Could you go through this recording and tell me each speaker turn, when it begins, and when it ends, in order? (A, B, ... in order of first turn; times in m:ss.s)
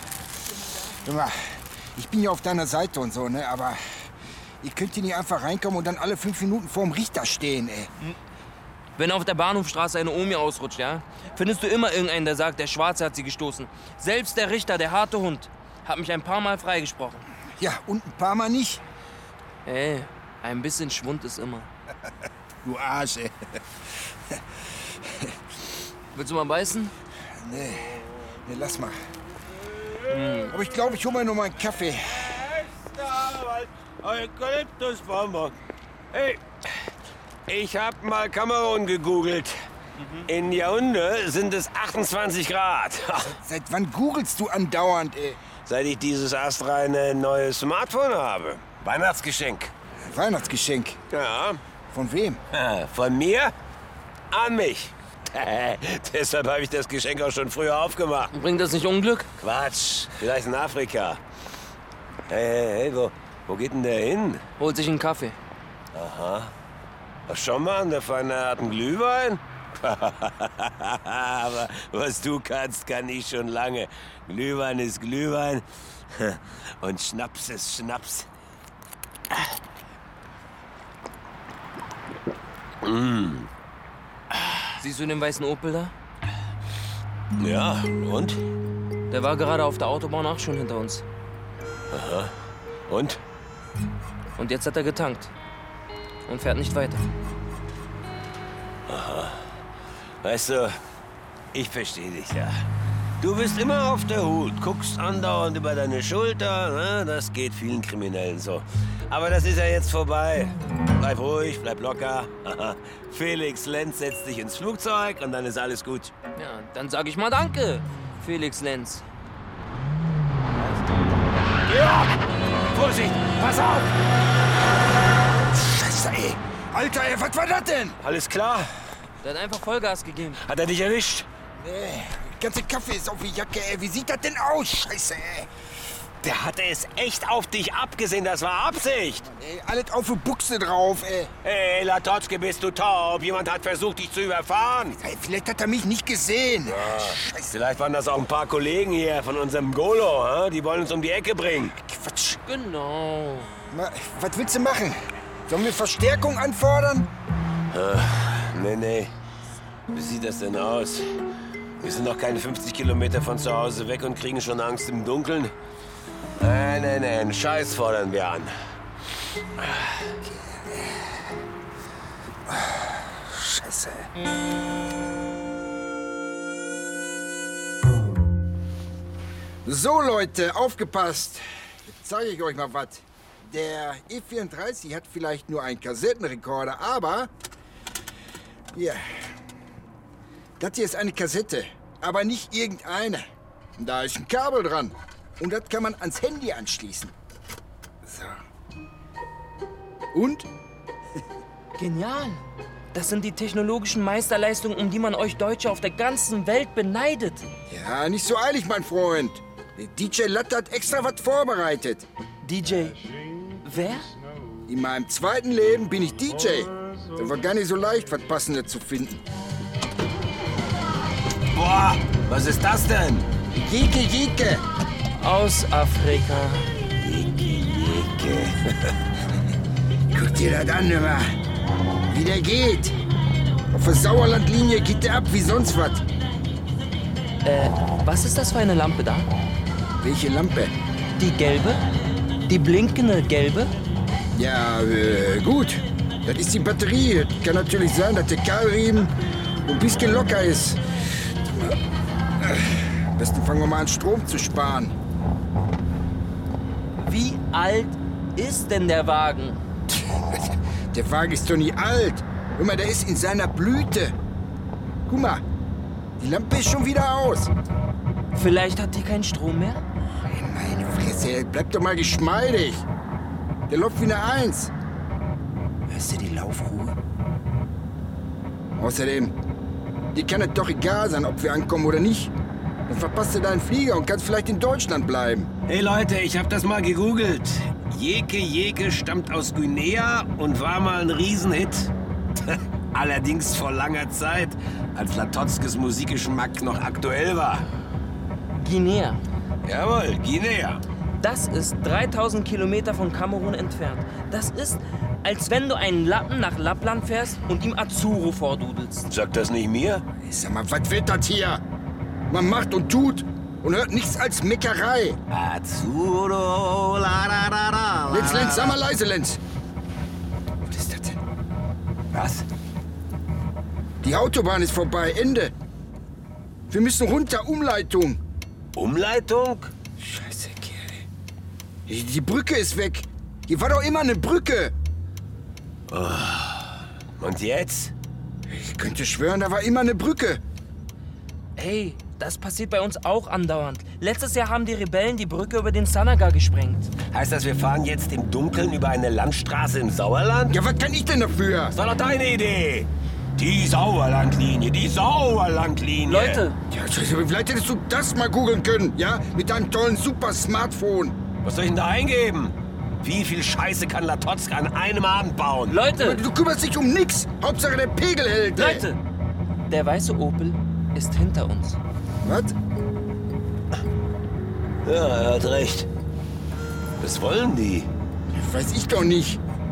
0:00.9-0:04.1 A
0:04.6-0:07.9 A
0:09.0-0:17.2 B
0:17.6-0:18.8 A
0:19.7-0:21.7 B
0:22.6-0:23.4 A
0:25.0-0:25.3 A
0:26.2-0:26.9 B
0:27.4-0:29.0 A
0:30.1-0:30.5 B
0:30.5-0:32.4 A
0:32.3-0:35.6 C
0:36.1-0:36.4 C
0:37.5-0:39.5 C
0:40.0-0:40.3 B
0:40.3-0:43.4 C
0:43.2-0:45.4 A
0:45.6-0:49.7 C
0:50.0-0:51.0 A
0:51.1-0:51.6 C
0:51.9-0:52.4 A
0:52.5-0:53.5 C
0:54.3-0:58.3 C
0:58.3-0:59.3 B
0:59.4-1:01.2 C
1:02.3-1:04.4 C
1:04.6-1:05.4 B
1:05.9-1:06.5 C
1:07.3-1:18.3 C
1:22.8-1:23.5 C
1:24.8-1:25.9 B
1:27.4-1:28.4 C
1:29.1-1:31.0 B
1:31.9-1:32.3 C
1:32.9-1:33.2 C
1:34.4-1:35.3 B
1:36.3-1:37.1 B
1:38.9-1:39.5 C
1:40.2-1:40.8 C
1:41.5-1:42.6 C
1:43.2-1:56.1 C
1:56.4-1:59.0 B
2:01.6-2:02.1 C
2:02.7-2:03.9 C
2:05.5-2:08.0 A
2:08.0-2:08.7 C
2:09.2-2:10.4 B
2:10.4-2:11.3 C
2:11.6-2:15.5 A
2:16.2-2:19.3 C
2:19.3-2:21.3 A
2:21.4-2:25.0 C
2:25.0-2:27.5 A
2:26.7-2:31.7 C
2:31.7-2:32.4 A
2:32.5-2:33.5 B
2:33.7-2:37.1 A
2:37.7-2:39.1 C
2:39.9-2:41.1 C
2:41.8-2:45.5 C
2:46.4-2:48.5 C
2:49.6-2:50.1 C
2:50.2-2:51.1 A
2:52.5-2:54.1 A
2:59.6-3:07.3 A
3:08.7-3:09.3 A
3:10.6-3:17.1 A
3:18.0-3:18.4 A
3:20.1-3:20.5 A
3:21.8-3:27.5 B
3:27.7-3:32.1 A
3:32.4-3:33.0 B
3:33.6-3:34.1 B
3:34.7-3:39.2 A
3:41.5-3:43.3 C
3:43.5-3:44.6 A
3:45.2-3:46.7 B
3:47.0-3:48.9 C
3:50.1-3:51.3 A
3:52.1-3:53.0 A
3:53.7-3:56.0 A
3:57.4-3:59.3 B
4:00.0-4:00.7 A
4:01.2-4:01.8 B
4:02.5-4:03.7 B
4:04.4-4:09.1 A
4:09.6-4:10.8 A
4:12.4-4:14.9 A
4:17.0-4:19.6 B
4:19.9-4:24.2 A
4:25.1-4:25.4 A
4:26.2-4:27.5 A
4:28.3-4:29.8 B
4:30.1-4:32.9 A
4:33.7-4:34.7 A
4:35.9-4:37.0 A
4:38.8-4:39.4 A
4:40.1-4:42.3 A
4:42.9-4:45.5 A
4:45.7-4:51.9 C
4:52.5-4:57.6 C
4:58.5-4:59.2 B
4:59.6-5:00.8 C
5:01.2-5:09.1 B
5:09.1-5:10.0 C
5:10.2-5:11.6 A
5:12.3-5:15.2 A
5:15.3-5:18.8 C
5:18.1-5:19.4 A
5:20.6-5:21.2 A
5:22.1-5:22.4 C
5:24.0-5:25.5 A
5:26.7-5:28.2 A
5:28.8-5:29.7 C
5:30.0-5:31.0 A
5:31.9-5:34.7 A
5:35.9-5:37.9 C
5:38.5-5:40.4 A
5:41.6-5:46.9 B
5:47.1-5:50.6 C
5:50.5-5:51.8 A
5:51.7-5:56.4 C
5:56.1-5:56.6 B
5:56.7-6:01.2 A
6:01.4-6:05.8 C
6:05.7-6:06.2 B
6:05.9-6:08.9 A
6:08.6-6:09.0 B
6:09.7-6:11.8 B
6:12.2-6:12.5 A
6:14.8-6:15.9 C
6:17.0-6:17.9 C
6:18.3-6:19.4 A